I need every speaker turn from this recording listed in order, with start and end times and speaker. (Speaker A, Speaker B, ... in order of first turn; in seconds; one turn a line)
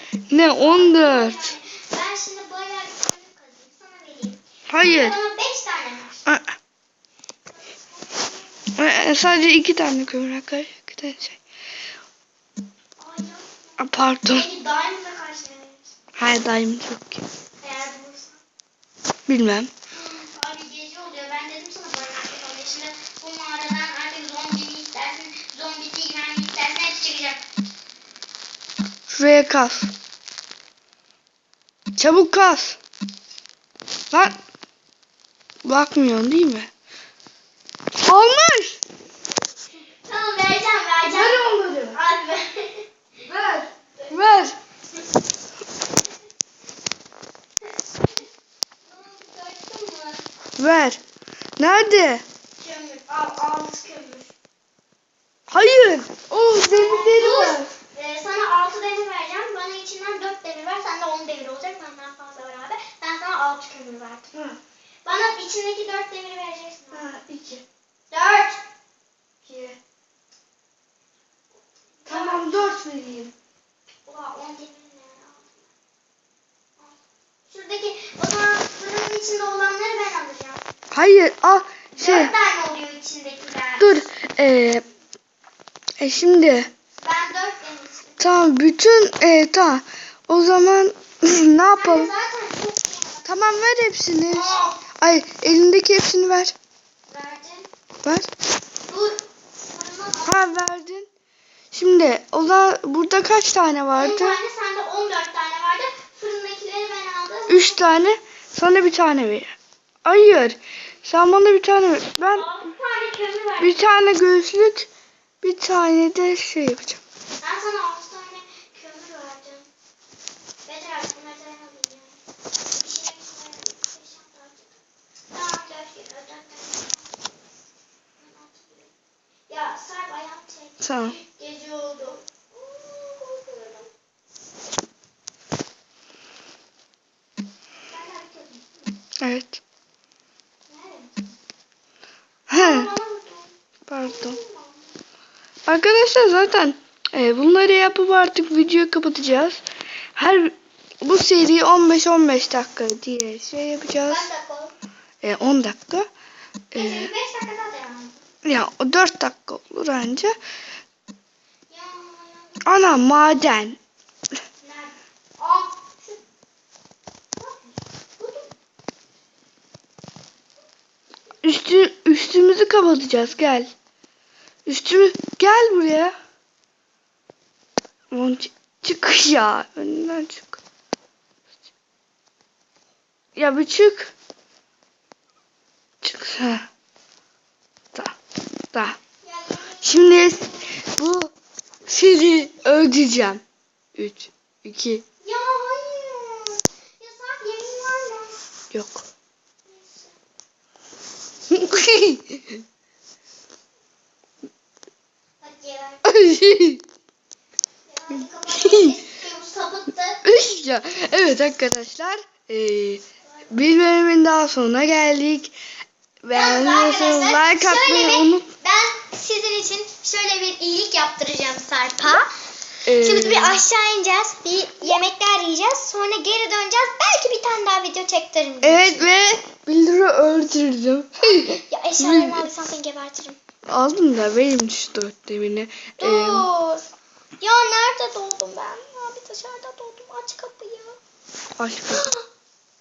Speaker A: 0.3-1.5
Speaker B: 0.3-6.2
Speaker A: 4.7-5.2
Speaker B: 7.5-8.7
Speaker A: 8.7-11.4
Speaker B: 13.0-15.9
Speaker A: 13.8-14.5
Speaker A: 16.2-17.2
Speaker B: 17.6-18.4
Speaker A: 19.3-19.7
Speaker B: 19.9-27.4
Speaker A: 29.1-29.9
Speaker A: 31.9-32.8
Speaker A: 34.1-34.4
Speaker A: 35.6-36.7
Speaker A: 37.9-38.8
Speaker B: 40.0-42.9
Speaker A: 41.1-42.0
Speaker A: 43.2-44.5
Speaker B: 48.8-50.2
Speaker A: 50.6-51.0
Speaker A: 51.6-52.2
Speaker B: 52.6-54.3
Speaker A: 55.5-57.7
Speaker B: 56.6-64.3
Speaker B: 65.0-67.1
Speaker A: 66.9-67.6
Speaker B: 68.1-68.6
Speaker A: 69.4-69.8
Speaker B: 72.0-72.8
Speaker A: 72.1-73.3
Speaker B: 74.0-75.7
Speaker B: 76.8-80.6
Speaker A: 80.9-82.3
Speaker B: 82.0-84.0
Speaker A: 83.8-84.8
Speaker A: 86.0-86.7
Speaker B: 87.0-88.2
Speaker A: 88.2-92.1
Speaker B: 91.7-93.4
Speaker A: 93.2-96.5
Speaker B: 94.3-94.8
Speaker B: 97.1-97.7
Speaker B: 98.9-100.4
Speaker A: 100.2-101.1
Speaker A: 101.7-104.3
Speaker B: 103.9-107.8
Speaker A: 107.5-109.5
Speaker A: 110.0-112.5
Speaker B: 112.3-113.8
Speaker A: 113.6-114.9
Speaker A: 115.4-117.0
Speaker B: 117.4-119.7
Speaker B: 120.7-122.2
Speaker B: 122.7-124.8
Speaker B: 125.3-127.3
Speaker B: 128.2-128.9
Speaker B: 129.5-133.9
Speaker A: 130.8-131.2
Speaker B: 137.9-138.7
Speaker A: 139.2-139.6
Speaker B: 140.7-141.3
Speaker A: 142.5-142.9
Speaker B: 142.5-144.9
Speaker A: 143.9-144.4
Speaker A: 145.7-149.6
Speaker A: 150.2-154.3
Speaker B: 154.1-154.7
Speaker A: 155.2-156.1
Speaker A: 156.7-157.1
Speaker B: 156.7-158.2
Speaker A: 158.4-160.4
Speaker B: 161.7-162.7
Speaker A: 162.6-163.8
Speaker B: 164.6-166.2
Speaker B: 167.4-168.5
Speaker A: 171.4-173.7
Speaker A: 174.7-176.1
Speaker A: 178.1-180.6
Speaker A: 183.3-184.1
Speaker A: 186.0-186.7
Speaker A: 188.7-189.0
Speaker B: 189.2-190.8
Speaker A: 189.8-191.3
Speaker A: 191.9-193.4
Speaker A: 193.9-195.0
Speaker B: 195.2-198.5
Speaker A: 198.7-199.0
Speaker B: 199.7-200.1
Speaker A: 201.5-202.6
Speaker B: 205.4-206.1
Speaker A: 206.0-206.8
Speaker B: 207.9-210.2
Speaker A: 208.5-208.9
Speaker A: 210.2-215.5
Speaker A: 216.2-218.5
Speaker B: 216.3-222.3
Speaker A: 222.8-223.6
Speaker B: 222.9-229.1
Speaker A: 228.6-232.4
Speaker B: 231.7-233.4
Speaker A: 233.7-236.5
Speaker B: 236.0-236.8
Speaker B: 237.4-241.0
Speaker A: 241.6-242.1
Speaker B: 241.9-242.2